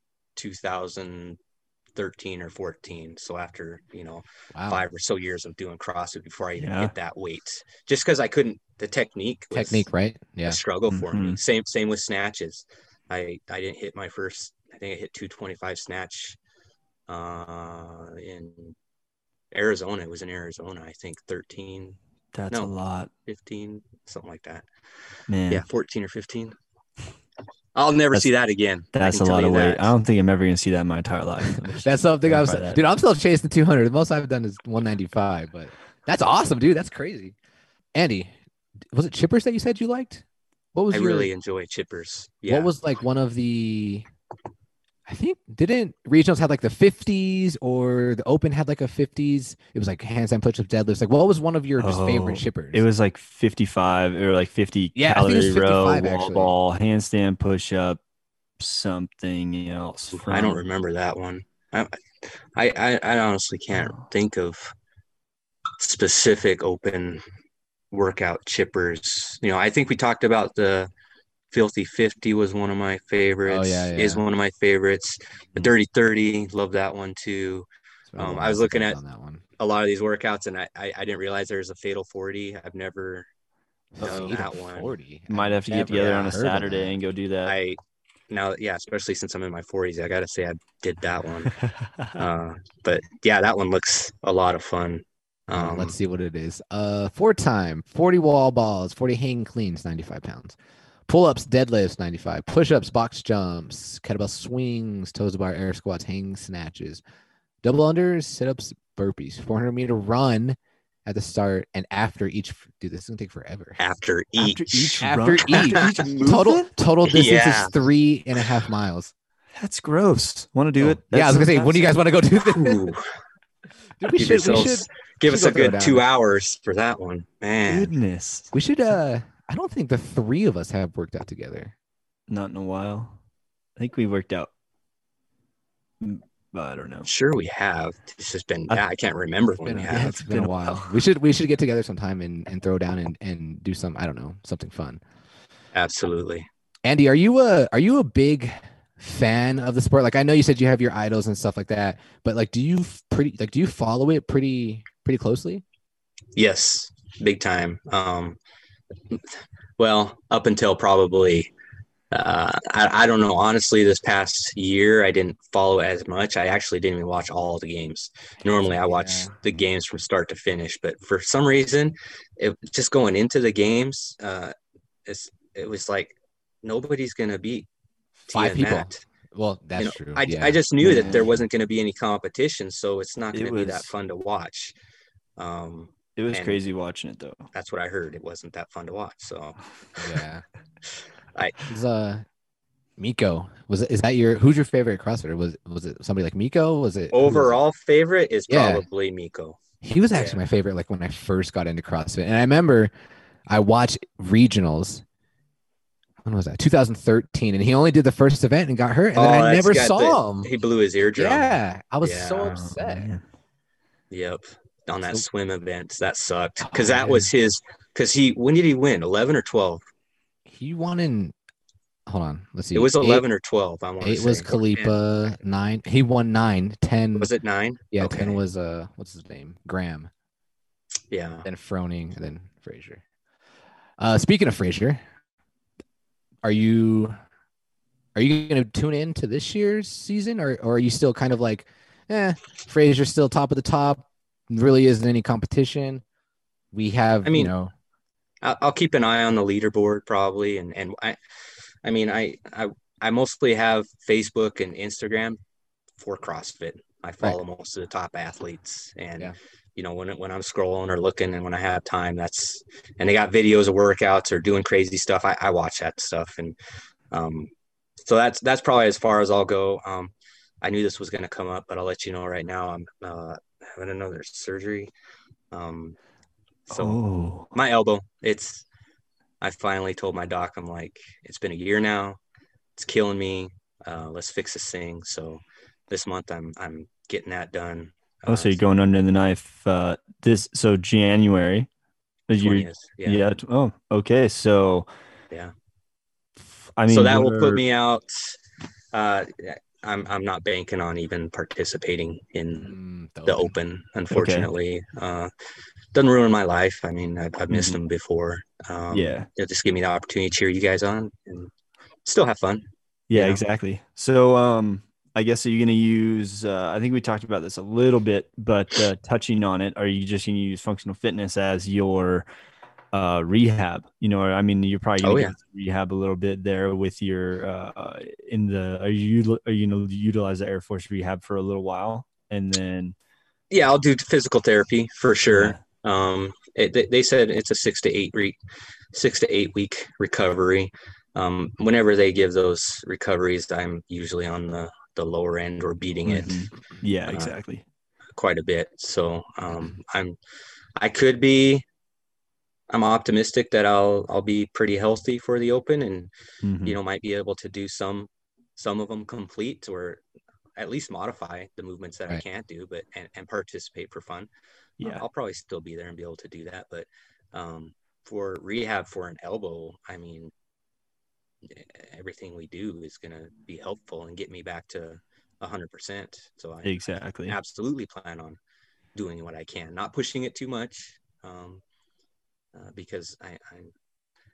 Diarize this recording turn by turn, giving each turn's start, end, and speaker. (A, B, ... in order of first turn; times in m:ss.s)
0:00.4-0:01.4 A
0:02.0-0:09.9 A
0:04.5-0:04.8 B
0:06.6-0:06.9 C
0:09.5-0:10.6 B
0:10.5-0:16.4 A
0:10.9-0:11.4 C
0:17.1-0:18.8 A
0:19.5-0:22.0 A
0:22.3-0:23.1 C
0:23.3-0:24.6 A
0:25.3-0:25.6 C
0:25.5-0:26.6 A
0:27.8-0:29.9 A
0:28.9-0:32.8 C
0:31.8-0:37.4 B
0:38.0-0:38.3 B
0:38.9-0:41.3 B
0:40.9-0:42.7 A
0:42.5-0:44.1 B
0:45.1-0:52.8 B
0:51.8-0:58.0 C
0:55.0-0:56.5 B
0:58.6-1:00.6 C
1:00.1-1:02.0 A
1:02.6-1:04.7 A
1:03.7-1:04.0 C
1:05.8-1:07.2 A
1:07.9-1:10.9 A
1:11.5-1:17.7 A
1:13.5-1:14.2 B
1:18.1-1:19.4 B
1:18.2-1:19.0 A
1:19.6-1:23.3 A
1:24.0-1:27.0 B
1:24.0-1:24.4 C
1:24.0-1:24.9 A
1:25.3-1:27.6 C
1:25.9-1:26.4 A
1:27.4-1:27.8 A
1:28.3-1:31.6 A
1:31.6-1:32.2 C
1:32.2-1:36.0 A
1:35.5-1:40.6 B
1:41.1-1:47.0 B
1:47.6-1:53.8 B
1:53.8-1:56.0 A
1:54.4-1:56.7 C
1:55.0-1:59.1 B
1:57.0-1:57.7 A
1:59.6-2:01.9 C
2:00.8-2:02.9 B
2:02.4-2:03.0 A
2:04.0-2:06.0 B
2:04.2-2:07.9 A
2:07.7-2:08.5 C
2:08.5-2:11.7 B
2:12.3-2:13.2 C
2:13.8-2:14.5 C
2:16.0-2:17.1 C
2:17.1-2:20.2 A
2:19.6-2:25.0 B
2:19.9-2:21.0 C
2:25.7-2:26.5 A
2:26.9-2:35.6 B
2:36.4-2:38.4 A
2:39.8-2:41.5 A
2:42.1-2:54.5 A
2:48.6-2:49.3 B
2:55.1-2:57.7 A
2:58.3-2:59.0 A
2:58.3-3:01.3 B
2:59.8-3:04.8 A
3:00.8-3:01.3 C
3:03.3-3:03.9 C
3:05.4-3:06.6 A
3:06.2-3:07.5 C
3:07.5-3:10.2 A
3:10.0-3:10.4 B
3:10.9-3:11.7 A
3:11.7-3:12.2 B
3:13.0-3:17.6 B
3:17.1-3:19.6 A
3:18.5-3:18.8 B
3:19.8-3:22.9 B
3:20.1-3:20.4 A
3:23.5-3:25.0 B
3:26.2-3:30.5 B
3:29.2-3:32.6 A
3:31.2-3:33.1 B
3:32.5-3:33.2 C
3:34.1-3:39.8 A
3:36.6-3:37.3 B
3:40.5-3:41.4 B
3:42.1-3:43.2 B
3:42.7-3:45.0 A
3:44.0-3:47.3 B
3:47.2-3:48.4 A
3:47.9-3:50.1 B
3:51.1-3:51.5 A
3:51.4-3:53.0 B
3:54.0-3:55.0 B
3:56.4-3:57.2 B
3:58.2-4:06.0 B
4:06.7-4:07.7 B
4:07.2-4:07.5 A
4:08.4-4:11.2 A
4:11.8-4:15.4 A
4:16.0-4:26.6 A
4:27.1-4:27.5 A
4:28.0-4:34.9 A
4:35.5-4:36.0 A
4:36.7-4:37.0 A
4:36.7-4:37.5 C
4:37.5-4:38.6 A
4:39.4-4:42.2 A
4:42.8-4:48.6 A
4:48.3-4:51.7 C
4:52.3-4:54.9 C
4:52.4-4:53.2 A
4:56.4-4:57.6 C
4:56.9-4:58.4 A
4:58.9-5:02.7 A
5:02.6-5:03.6 B
5:03.3-5:05.3 A
5:04.1-5:04.5 C
5:05.9-5:11.5 A
5:07.5-5:07.8 C
5:08.9-5:09.3 C
5:12.0-5:13.4 A
5:13.1-5:22.3 C
5:22.9-5:33.0 C
5:25.0-5:25.4 A
5:33.5-5:38.4 A
5:35.3-5:35.6 C
5:38.9-5:46.4 A
5:46.1-5:47.6 C
5:47.1-5:47.3 A
5:48.2-5:50.2 A
5:50.8-5:51.6 A
5:52.7-5:56.1 A
5:56.4-5:56.8 C
5:56.6-6:00.0 A
6:00.6-6:04.3 A
6:04.8-6:10.3 A
6:11.5-6:18.4 A
6:16.6-6:17.4 C
6:19.0-6:21.6 A
6:22.5-6:23.7 A